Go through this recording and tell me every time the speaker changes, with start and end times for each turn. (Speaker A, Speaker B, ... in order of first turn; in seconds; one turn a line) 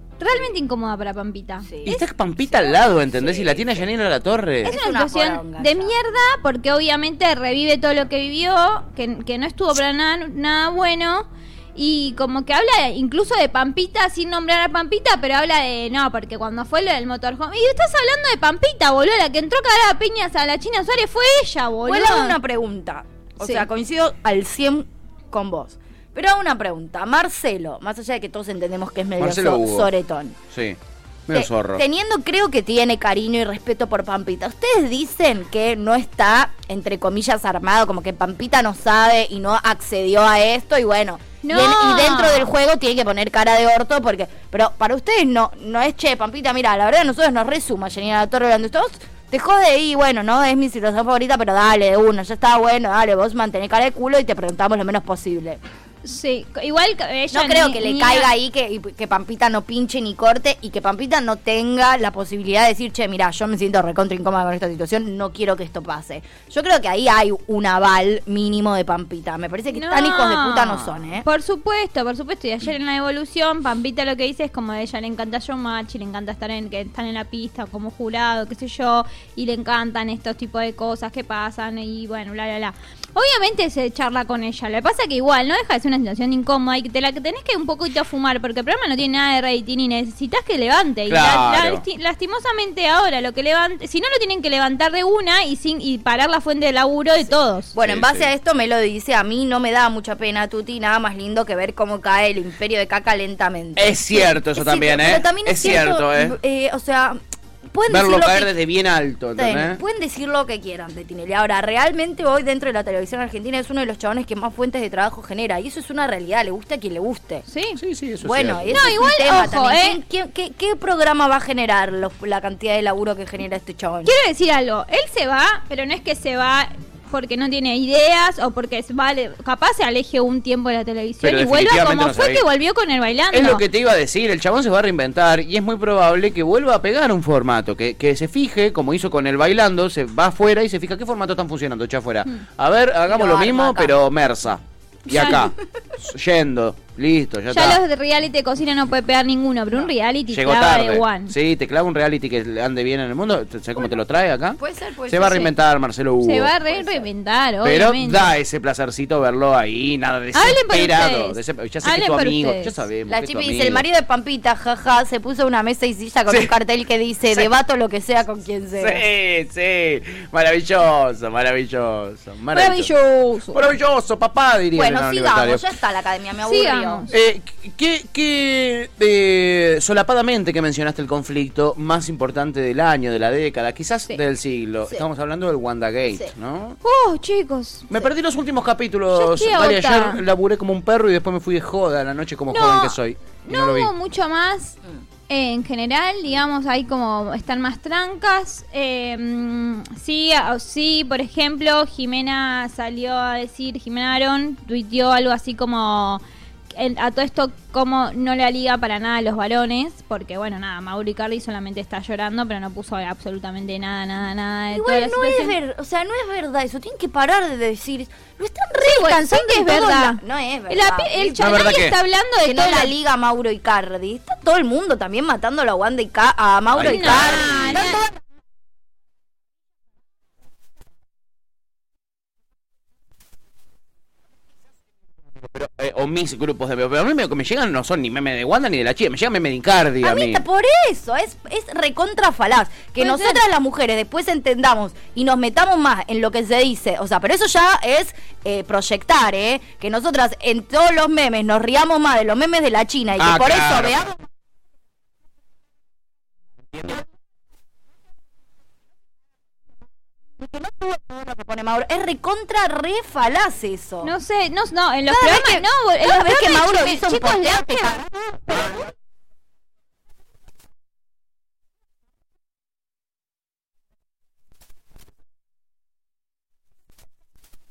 Speaker A: 0.2-1.7
Speaker B: 1.6-3.9
Speaker C: 1.8-4.7
Speaker A: 4.6-22.4
Speaker B: 4.6-5.9
Speaker B: 21.8-30.4
Speaker A: 23.4-23.7
Speaker C: 29.2-29.9
Speaker C: 30.5-31.8
Speaker B: 31.3-55.6
Speaker A: 41.4-42.5
Speaker A: 56.0-58.3
Speaker B: 57.3-71.2
Speaker A: 69.7-97.7
Speaker C: 91.1-91.8
Speaker B: 97.7-108.5
Speaker C: 97.8-98.3
Speaker C: 103.8-106.4
Speaker C: 107.9-109.8
Speaker B: 109.4-117.4
Speaker A: 117.5-117.8
Speaker C: 117.8-119.0
Speaker B: 118.2-124.1
Speaker A: 118.7-120.0
Speaker A: 124.0-133.6
Speaker C: 131.2-132.4
Speaker C: 133.3-147.8
Speaker B: 143.1-144.0
Speaker A: 145.1-145.5
Speaker B: 145.2-145.5
Speaker A: 147.5-151.3
Speaker C: 150.3-156.5
Speaker B: 154.6-155.5
Speaker A: 156.2-158.3
Speaker B: 156.7-157.1
Speaker C: 157.6-163.8
Speaker A: 160.3-162.8
Speaker B: 163.1-169.0
Speaker C: 168.8-172.9
Speaker A: 172.5-173.6
Speaker C: 173.5-175.6
Speaker B: 174.7-177.1
Speaker A: 176.4-177.1
Speaker C: 177.1-186.8
Speaker A: 186.8-187.9
Speaker C: 187.9-193.9
Speaker A: 189.1-190.2
Speaker A: 192.5-194.8
Speaker A: 195.3-206.2
Speaker A: 206.7-215.5
Speaker B: 214.7-221.7
Speaker A: 218.8-222.9
Speaker C: 221.4-221.9
Speaker B: 222.4-228.0
Speaker C: 226.7-228.0
Speaker A: 226.8-228.0
Speaker C: 235.4-240.4
Speaker B: 240.0-254.2
Speaker A: 243.0-243.4
Speaker C: 253.2-254.1
Speaker C: 256.7-257.0
Speaker B: 260.4-264.1
Speaker A: 264.0-268.0
Speaker B: 265.1-268.7
Speaker A: 268.5-268.7